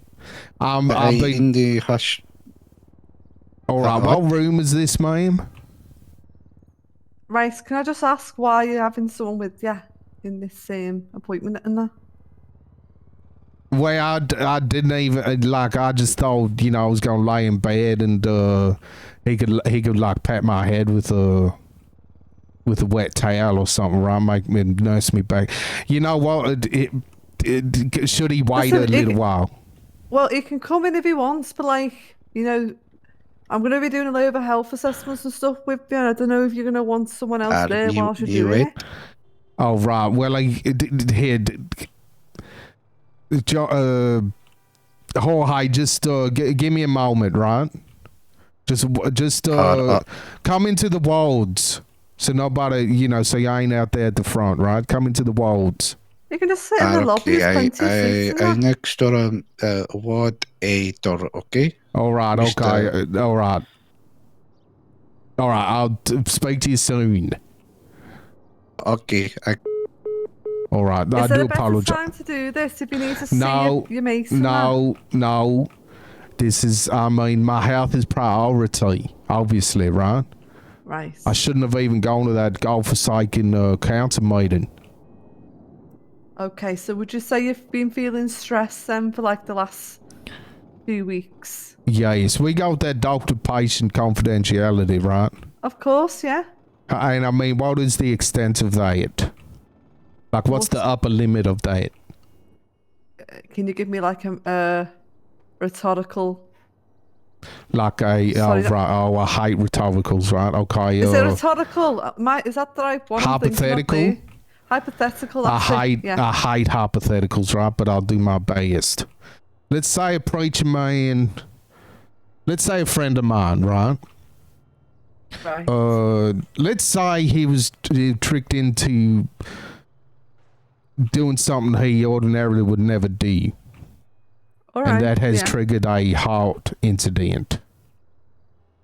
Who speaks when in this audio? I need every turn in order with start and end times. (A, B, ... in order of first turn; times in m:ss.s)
0:00.6-0:01.4 A
0:00.9-0:02.2 B
0:03.7-0:05.4 A
0:03.8-0:04.2 B
0:07.3-0:11.9 C
0:13.7-0:21.5 A
0:22.6-0:29.5 A
0:28.6-0:29.2 C
0:30.1-0:32.8 C
0:33.5-0:38.7 C
0:37.5-0:38.7 B
0:39.6-0:41.9 A
0:43.3-0:44.3 A
0:45.2-0:47.7 A
0:48.6-0:56.0 A
0:49.5-0:50.0 B
0:56.3-0:58.6 C
0:56.8-1:01.7 B
1:01.9-1:03.6 A
1:02.3-1:02.9 B
1:05.4-1:07.4 A
1:08.8-1:09.6 B
1:10.7-1:12.0 A
1:11.1-1:14.7 C
1:13.3-1:15.7 A
1:16.4-1:20.3 A
1:20.8-1:21.4 C
1:21.2-1:24.7 A
1:26.4-1:30.0 C
1:30.8-1:31.7 C
1:31.9-1:35.3 A
1:35.6-1:36.5 C
1:36.9-1:39.3 A
1:40.3-1:41.9 A
1:40.5-1:40.8 C
1:43.3-1:44.9 C
1:45.6-1:46.5 C
1:47.7-1:51.4 A
1:48.3-1:48.7 C
1:51.0-1:56.2 C
1:53.2-1:54.2 A
1:55.4-1:59.0 A
1:59.7-2:01.4 A
2:02.5-2:04.0 A
2:05.4-2:05.7 C
2:05.6-2:09.3 A
2:11.1-2:13.5 A
2:14.7-2:15.5 C
2:14.8-2:17.6 A